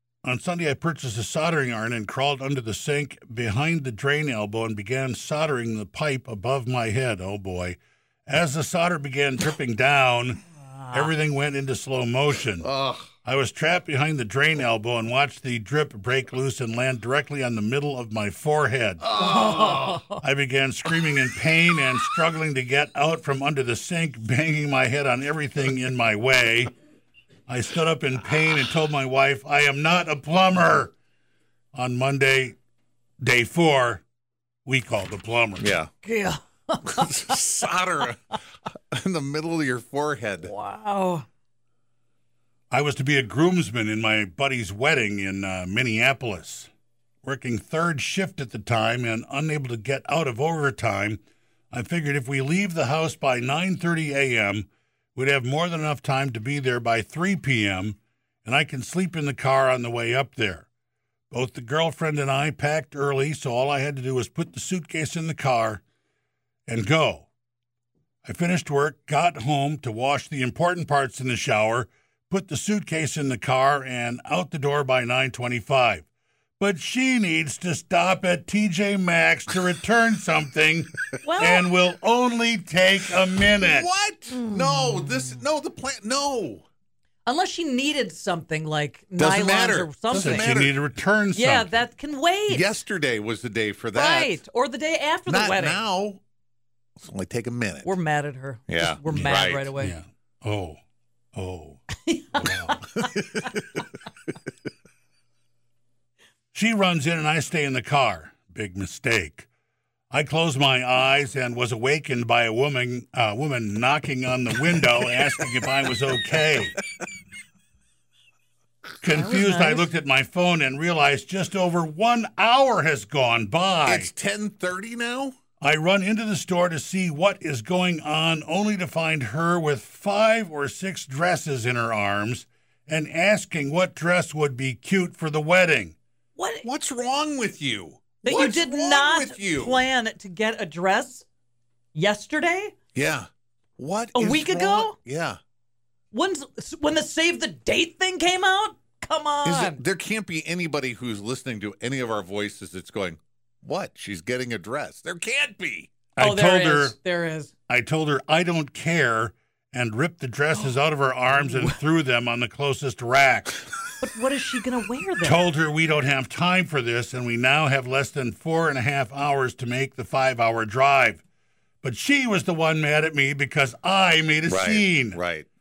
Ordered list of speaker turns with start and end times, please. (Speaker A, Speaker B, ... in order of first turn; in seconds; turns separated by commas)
Speaker A: 0.2-10.4, Speaker B: 10.8-11.1, Speaker A: 10.9-12.7, Speaker C: 12.6-13.1, Speaker A: 13.2-19.1, Speaker C: 19.0-20.1, Speaker B: 19.2-20.2, Speaker A: 20.1-26.7, Speaker A: 27.5-30.9, Speaker A: 31.8-32.6, Speaker A: 33.2-34.0, Speaker A: 34.6-35.7, Speaker C: 35.6-35.9, Speaker B: 36.0-37.4, Speaker C: 36.9-38.2, Speaker C: 38.9-40.5, Speaker B: 40.4-41.3, Speaker A: 42.7-46.7, Speaker A: 47.2-51.2, Speaker A: 51.7-60.7, Speaker A: 61.3-65.8, Speaker A: 66.7-67.3, Speaker A: 68.2-76.1, Speaker A: 76.6-83.9, Speaker B: 81.2-81.7, Speaker C: 83.6-86.7, Speaker B: 84.3-85.3, Speaker B: 87.2-90.5, Speaker C: 89.2-90.7, Speaker A: 90.1-91.8, Speaker B: 91.3-92.7, Speaker C: 92.5-94.4, Speaker B: 93.9-95.8, Speaker C: 95.3-96.2, Speaker C: 97.0-97.9, Speaker B: 97.8-100.0, Speaker C: 98.7-99.7, Speaker A: 99.1-100.8, Speaker A: 101.3-101.8, Speaker B: 102.1-103.0, Speaker A: 102.3-102.8, Speaker C: 103.2-103.6, Speaker A: 106.5-109.5, Speaker A: 110.1-116.8, Speaker A: 119.0-124.1, Speaker B: 119.1-119.9, Speaker C: 123.9-125.4, Speaker A: 125.6-135.9, Speaker B: 136.4-136.7, Speaker C: 136.6-139.9, Speaker B: 138.2-141.2, Speaker B: 141.9-142.7, Speaker C: 142.9-145.4, Speaker B: 144.2-144.9, Speaker B: 146.1-149.8, Speaker C: 149.4-155.9, Speaker A: 156.2-157.0, Speaker B: 156.2-157.5, Speaker A: 157.7-163.7, Speaker B: 161.4-161.8, Speaker B: 164.0-165.4, Speaker A: 165.2-171.2, Speaker A: 171.8-175.2, Speaker C: 174.5-175.5